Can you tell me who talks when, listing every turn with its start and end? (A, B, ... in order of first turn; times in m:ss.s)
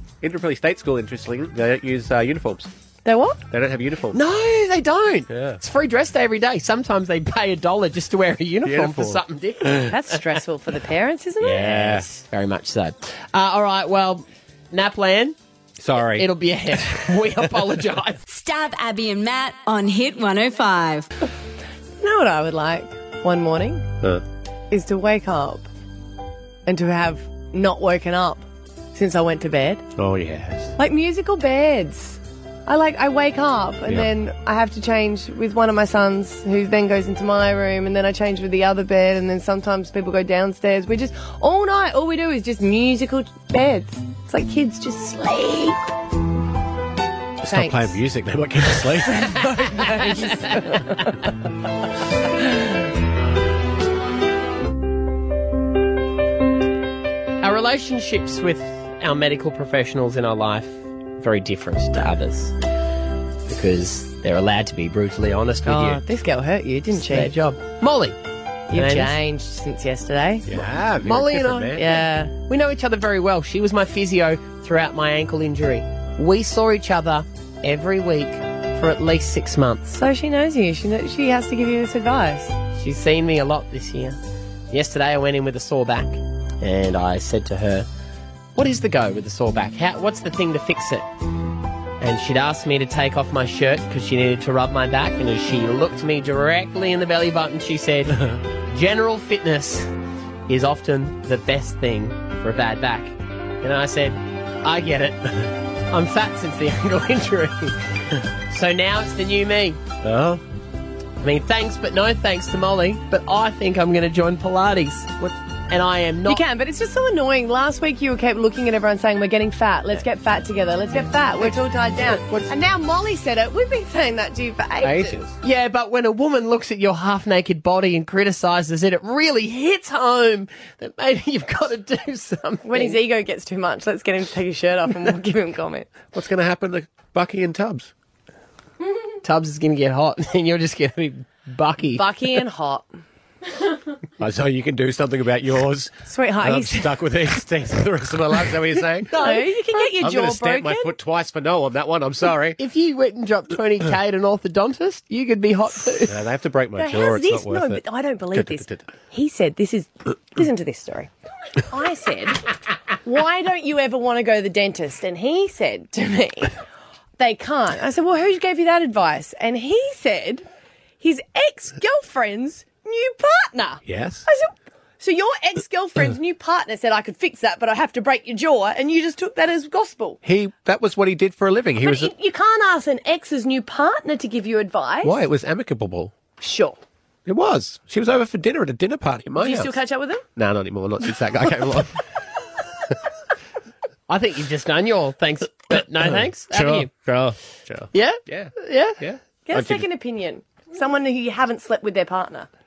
0:00.2-0:02.7 A
0:03.0-0:03.4 B
0:03.5-0:04.2 A
0:04.1-0:10.0 C
0:05.3-0:05.6 A
0:08.6-0:09.2 A
0:09.8-0:11.7 B
0:11.4-0:15.4 C
0:11.6-0:12.1 A
0:15.8-0:16.3 A
0:16.2-0:18.2 C
0:18.3-0:21.1 D
0:22.0-0:23.9 B
0:24.7-0:25.7 B
0:26.7-0:29.8 B
0:30.0-0:30.8 A
0:30.8-0:45.8 B
0:47.4-0:49.5 A
0:47.5-0:48.0 B
0:49.2-0:51.0 B
0:49.4-0:51.1 C
0:57.4-1:02.6 C
1:03.5-1:06.0 C
1:05.7-1:07.3 B
1:07.0-1:08.2 C
1:08.7-1:10.5 B
1:08.7-1:09.2 C
1:10.5-1:12.0 A
1:11.0-1:19.9 C
1:11.8-1:12.3 B
1:19.9-1:22.6 B
1:22.8-1:24.2 C
1:24.7-1:27.9 C
1:28.6-1:31.1 C
1:32.0-1:39.9 C
1:38.2-1:38.4 A
1:40.5-1:47.8 C
1:48.5-1:49.8 C
1:50.0-1:50.4 A
1:51.2-1:56.4 C
1:56.3-2:05.2 B
2:02.0-2:02.5 A
2:04.8-2:05.3 A
2:05.4-2:13.0 C
2:12.6-2:15.9 B
2:16.1-2:17.9 A
2:19.2-2:22.4 C
2:22.0-2:22.9 B
2:24.2-2:29.2 A
2:26.1-2:27.1 B
2:29.1-2:29.8 C
2:29.2-2:30.9 B
2:30.0-2:32.6 A
2:32.6-2:36.2 C
2:36.1-2:37.8 A
2:36.8-2:41.1 B
2:38.3-2:38.8 A
2:41.7-2:42.4 B
2:43.0-2:46.6 B
2:47.2-2:50.4 B
2:51.0-3:00.2 B
2:53.9-2:54.2 A
3:00.2-3:02.1 A
3:01.8-3:05.2 B
3:05.0-3:06.1 A
3:06.4-3:06.8 B
3:07.3-3:09.8 A
3:09.4-3:10.2 B
3:10.4-3:12.0 A
3:14.1-3:17.4 C
3:16.5-3:19.8 A
3:17.9-3:19.0 C
3:19.5-3:22.5 B